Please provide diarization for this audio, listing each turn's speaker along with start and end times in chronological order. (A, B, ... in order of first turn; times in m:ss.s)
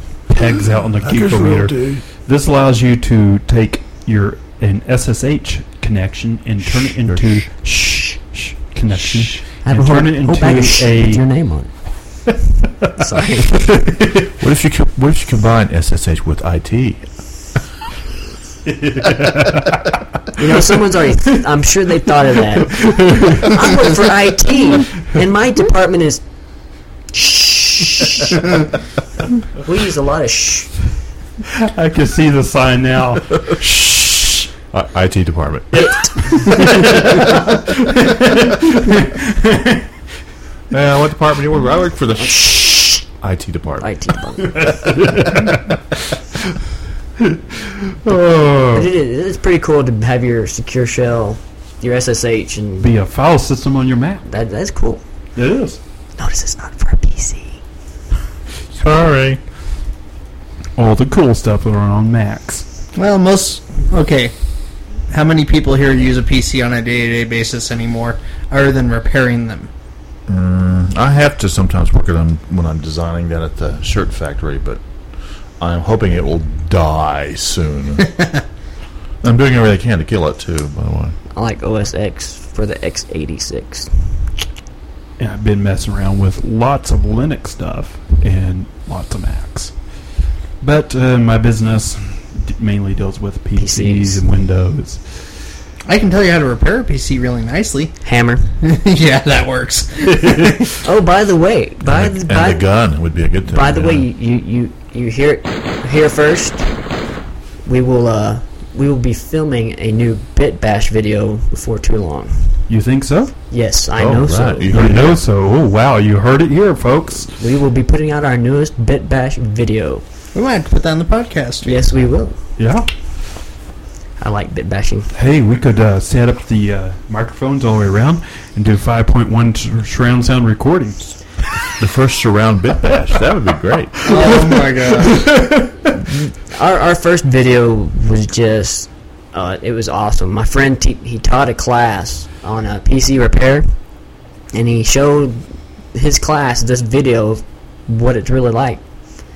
0:00.3-0:11.4 A
0:00.5-0:02.0 B
0:07.0-0:07.4 B
0:09.6-0:11.9 C
0:13.0-0:13.9 C
0:14.4-0:17.1 B
0:18.7-0:19.8 A
0:20.4-0:26.2 C
0:22.7-0:23.6 A
0:27.1-0:28.4 C
0:29.6-0:30.7 C
0:31.6-0:34.5 A
0:34.7-0:35.8 B
0:35.7-0:37.1 C
0:36.3-0:39.8 A
0:40.7-0:43.9 B
0:42.2-0:43.1 C
0:43.8-0:44.8 C
0:44.5-0:45.6 A
0:47.9-0:48.9 A
0:48.7-0:52.9 C
0:52.8-0:54.3 A
0:54.3-0:55.0 C
0:55.4-0:55.8 A
0:56.2-0:57.6 C
0:58.7-0:59.4 B
1:00.8-1:02.7 A
1:02.9-1:04.3 D
1:05.1-1:09.7 D
1:10.3-1:14.8 B
1:15.6-1:18.1 B
1:19.2-1:21.2 B
1:21.3-1:23.9 C
1:25.2-1:29.8 A
1:30.6-1:35.4 A
1:33.6-1:34.2 C
1:35.9-1:38.0 D
1:38.0-1:38.5 C
1:38.6-1:40.7 D
1:40.8-1:42.7 C
1:41.8-1:44.1 B
1:43.5-1:46.7 C
1:47.6-1:52.6 C
1:52.7-1:53.4 A
1:53.5-1:54.8 C
1:54.0-1:55.2 B
1:54.7-1:57.3 A
1:57.4-2:00.0 C
2:00.3-2:01.8 D
2:01.6-2:02.4 C
2:02.6-2:02.9 A
2:04.2-2:05.1 C
2:05.1-2:11.3 A
2:11.8-2:14.0 B
2:14.0-2:15.3 D
2:14.1-2:14.5 C
2:14.2-2:15.6 A
2:16.0-2:23.7 C
2:24.5-2:28.8 C